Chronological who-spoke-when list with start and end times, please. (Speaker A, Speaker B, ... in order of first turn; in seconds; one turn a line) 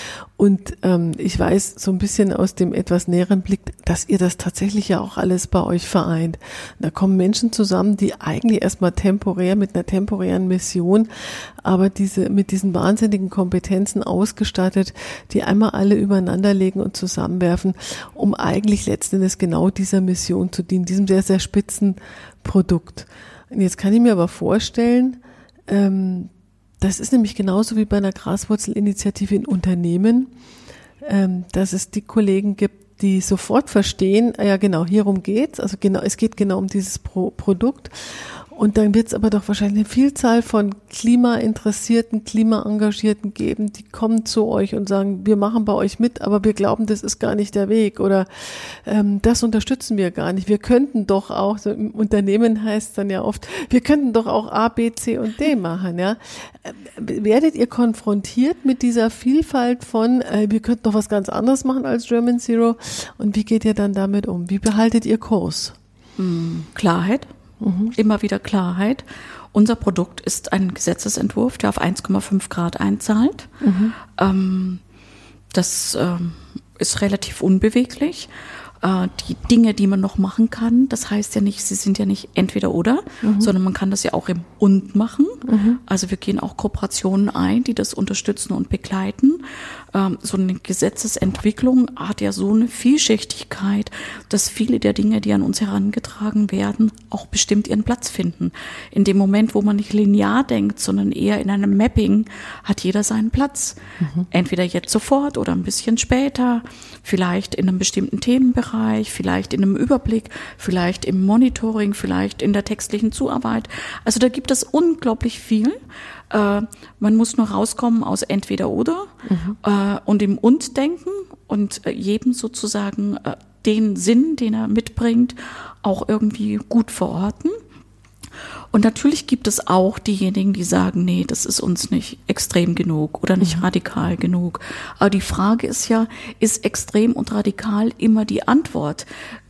Speaker A: 0.4-30.3
Speaker A: 31.0-65.8
Speaker B: 66.2-67.3
Speaker A: 67.6-68.0
Speaker B: 67.9-73.5
Speaker A: 73.6-74.0
Speaker B: 74.1-74.8
Speaker B: 75.5-78.3
Speaker B: 78.8-115.8
Speaker A: 83.2-83.5
Speaker A: 85.5-85.8
Speaker A: 104.0-104.3
Speaker B: 116.3-127.6
Speaker A: 119.2-119.6
Speaker B: 128.7-139.1